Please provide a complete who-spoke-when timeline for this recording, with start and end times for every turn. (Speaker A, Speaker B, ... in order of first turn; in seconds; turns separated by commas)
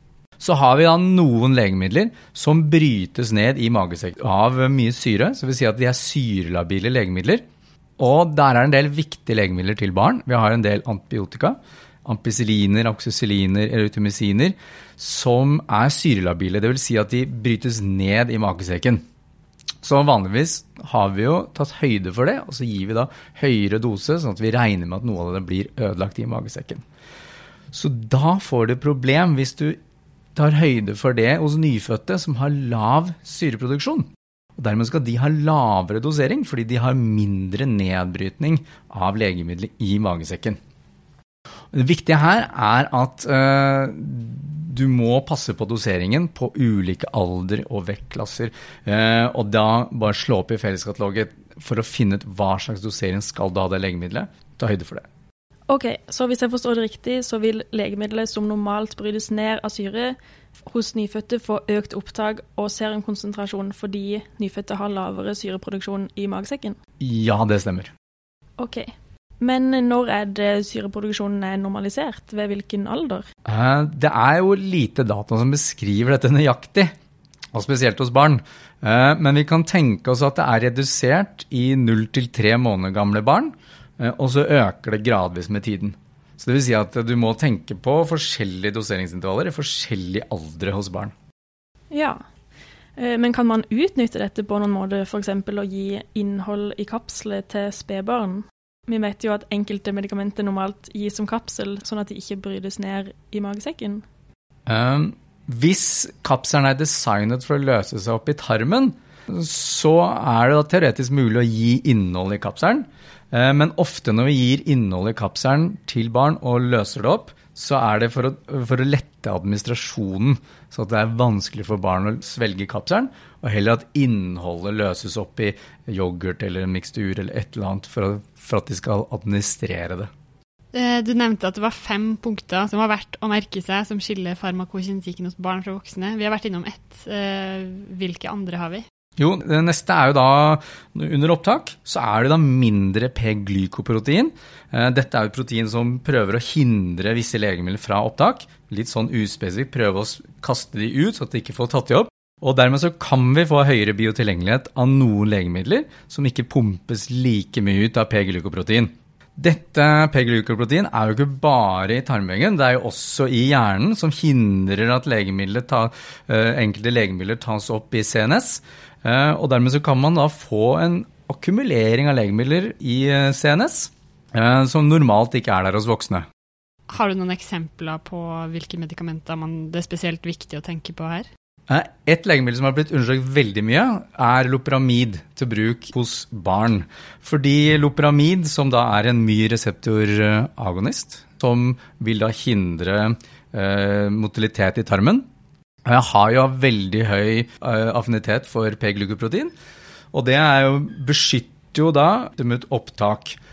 Speaker A: 0.4-7.4, Speaker A: 8.0-19.0, Speaker A: 19.8-26.8, Speaker A: 27.7-29.8, Speaker A: 30.4-40.6, Speaker A: 41.7-55.1, Speaker B: 55.7-66.8, Speaker A: 67.0-67.9, Speaker B: 68.6-68.9, Speaker B: 69.4-73.3, Speaker A: 73.5-76.9, Speaker A: 77.5-91.1, Speaker B: 91.9-92.2, Speaker B: 93.0-104.0, Speaker A: 104.7-130.1, Speaker C: 130.7-138.8, Speaker A: 139.2-176.3, Speaker C: 176.9-181.3, Speaker A: 181.7-195.2, Speaker A: 195.8-199.5, Speaker A: 200.1-203.4